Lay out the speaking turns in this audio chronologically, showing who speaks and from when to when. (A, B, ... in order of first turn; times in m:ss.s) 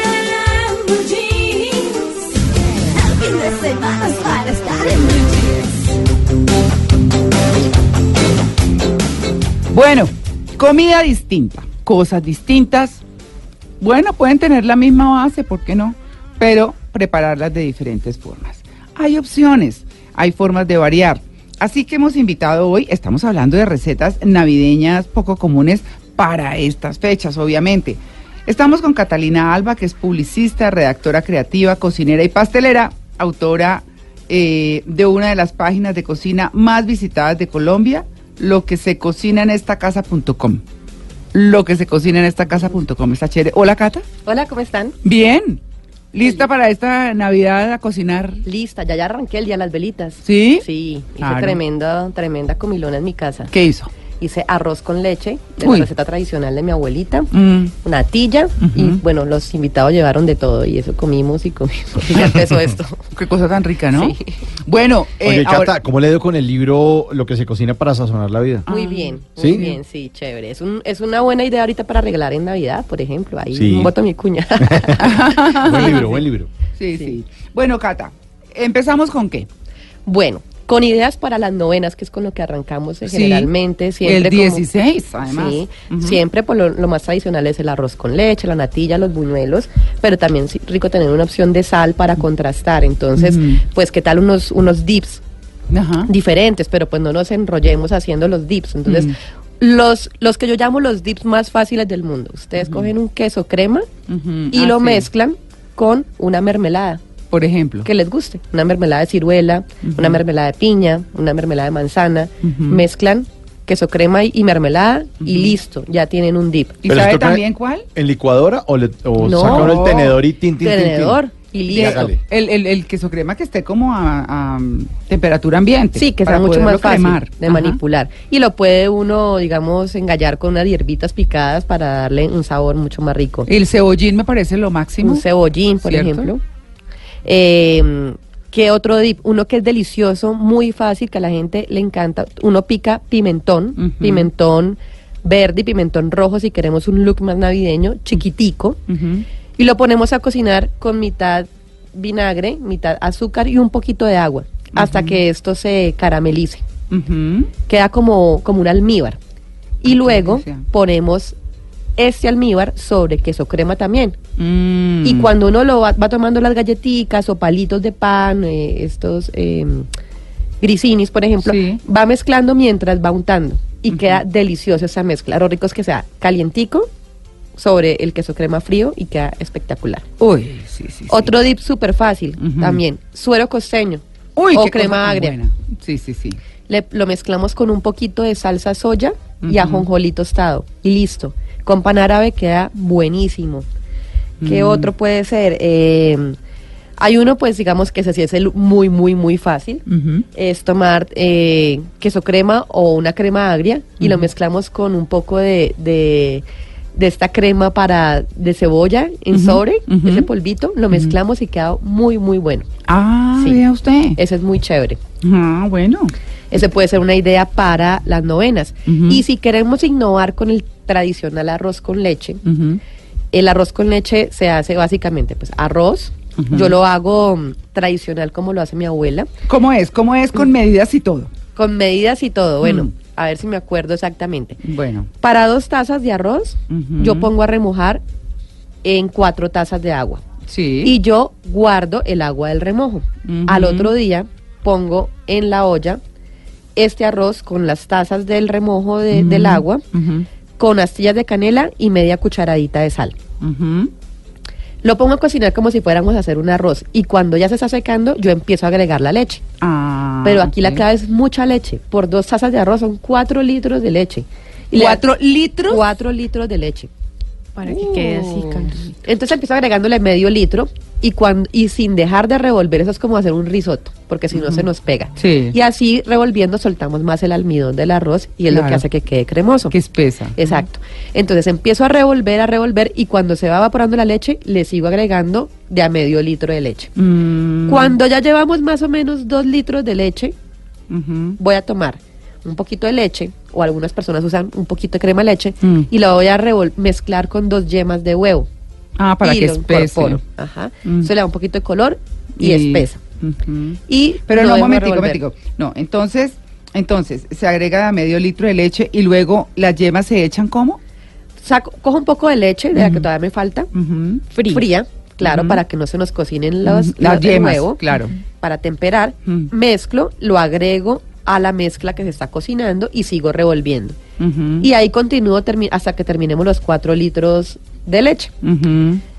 0:00.8-0:01.2 A
0:03.3-0:05.1 A
0:09.7-0:13.0 B
0:13.8-0:40.6 B
0:41.3-0:44.1 B
0:44.2-0:45.0 C
0:45.0-0:45.6 B
0:46.1-0:48.4 B
0:48.4-0:53.5 C
0:50.2-0:50.6 B
0:51.2-0:51.6 B
0:53.5-0:53.9 B
0:54.2-0:57.3 C
0:55.6-0:55.9 B
0:57.3-0:57.7 B
0:57.8-1:03.0 C
0:58.6-0:59.0 B
1:03.1-1:05.7 B
1:03.9-1:04.3 C
1:05.2-1:08.7 D
1:08.7-1:09.8 B
1:08.7-1:15.1 C
1:09.4-1:09.7 D
1:13.5-1:14.0 D
1:14.6-1:16.5 D
1:15.0-1:16.2 B
1:16.8-1:19.5 B
1:20.1-1:24.6 C
1:23.0-1:23.5 B
1:24.0-1:26.2 B
1:25.3-1:35.2 C
1:33.2-1:33.6 B
1:35.7-1:36.1 B
1:36.1-1:43.9 C
1:38.9-1:39.2 B
1:42.6-1:42.9 B
1:44.1-1:45.1 B
1:44.5-1:47.0 C
1:47.3-1:47.9 B
1:47.8-1:56.8 C
1:49.8-1:50.2 B
1:52.4-1:52.8 B
1:55.2-1:55.6 B
1:56.8-1:57.9 B
1:56.9-1:57.4 D
1:58.0-2:02.2 D
1:59.2-2:00.1 C
1:59.2-2:00.2 B
2:00.6-2:02.1 C
2:01.7-2:07.8 B
2:06.0-2:13.5 C
2:13.5-2:15.2 B
2:15.0-2:16.4 C
2:15.9-2:16.3 B
2:17.2-2:28.8 C
2:23.8-2:24.3 B
2:28.9-2:29.3 B
2:29.6-2:36.6 C
2:34.8-2:35.2 B
2:36.9-2:37.5 B
2:37.7-2:39.2 C
2:39.8-2:41.4 C
2:39.9-2:40.7 B
2:42.0-2:44.2 C
2:44.4-2:45.3 B
2:45.0-2:49.9 C
2:50.6-2:56.9 C
2:51.4-2:51.8 B
2:53.9-2:54.2 B
2:57.6-3:00.1 C
3:00.2-3:01.3 B
3:01.1-3:05.4 C
3:02.4-3:02.8 B
3:04.4-3:06.4 B
3:06.7-3:13.7 C
3:09.4-3:09.9 B
3:14.4-3:14.9 B
3:14.4-3:16.4 C
3:17.0-3:32.7 C
3:19.9-3:20.3 B
3:24.0-3:24.3 B
3:29.3-3:30.3 B
3:32.9-3:34.2 B
3:33.4-3:33.6 C
3:34.2-3:35.0 C
3:35.2-3:36.1 B
3:36.5-3:42.4 C
3:38.9-3:39.2 B
3:42.4-3:42.8 B
3:43.3-3:49.3 C
3:46.4-3:46.8 B
3:49.5-3:51.3 B
3:51.6-3:54.6 C
3:52.6-3:52.9 B
3:54.6-3:55.1 B
3:55.2-3:58.0 C
3:56.7-3:57.3 B
3:58.8-4:00.2 C
4:00.5-4:00.9 B
4:00.8-4:06.0 C
4:03.2-4:03.9 B
4:06.8-4:09.8 C
4:09.1-4:10.3 B
4:10.6-4:13.2 C
4:13.4-4:13.9 B
4:14.8-4:19.4 C
4:19.6-4:20.8 B
4:20.2-4:25.0 C
4:24.7-4:25.8 B
4:25.7-4:26.9 C
4:27.6-4:28.9 E
4:27.6-4:28.9 B
4:29.0-4:39.8 C
4:34.3-4:34.7 B
4:35.2-4:35.6 B
4:38.5-4:38.8 B
4:39.7-4:40.4 B
4:40.4-4:46.9 C
4:47.0-4:48.0 B
4:47.7-4:50.4 C
4:50.9-4:51.4 B
4:51.4-4:58.5 C
4:55.6-4:55.9 B
4:59.0-5:00.2 B
4:59.2-5:03.0 C
5:00.9-5:01.1 B
5:02.4-5:10.8 B
5:03.9-5:05.2 C
5:11.4-5:13.7 C
5:12.7-5:13.1 B
5:13.7-5:14.3 B
5:14.3-5:14.6 E
5:14.5-5:17.8 C
5:15.2-5:15.6 B
5:16.6-5:18.1 B
5:17.9-5:18.2 E
5:18.4-5:24.0 C
5:24.2-5:24.7 B
5:24.6-5:28.3 C
5:28.4-5:29.0 B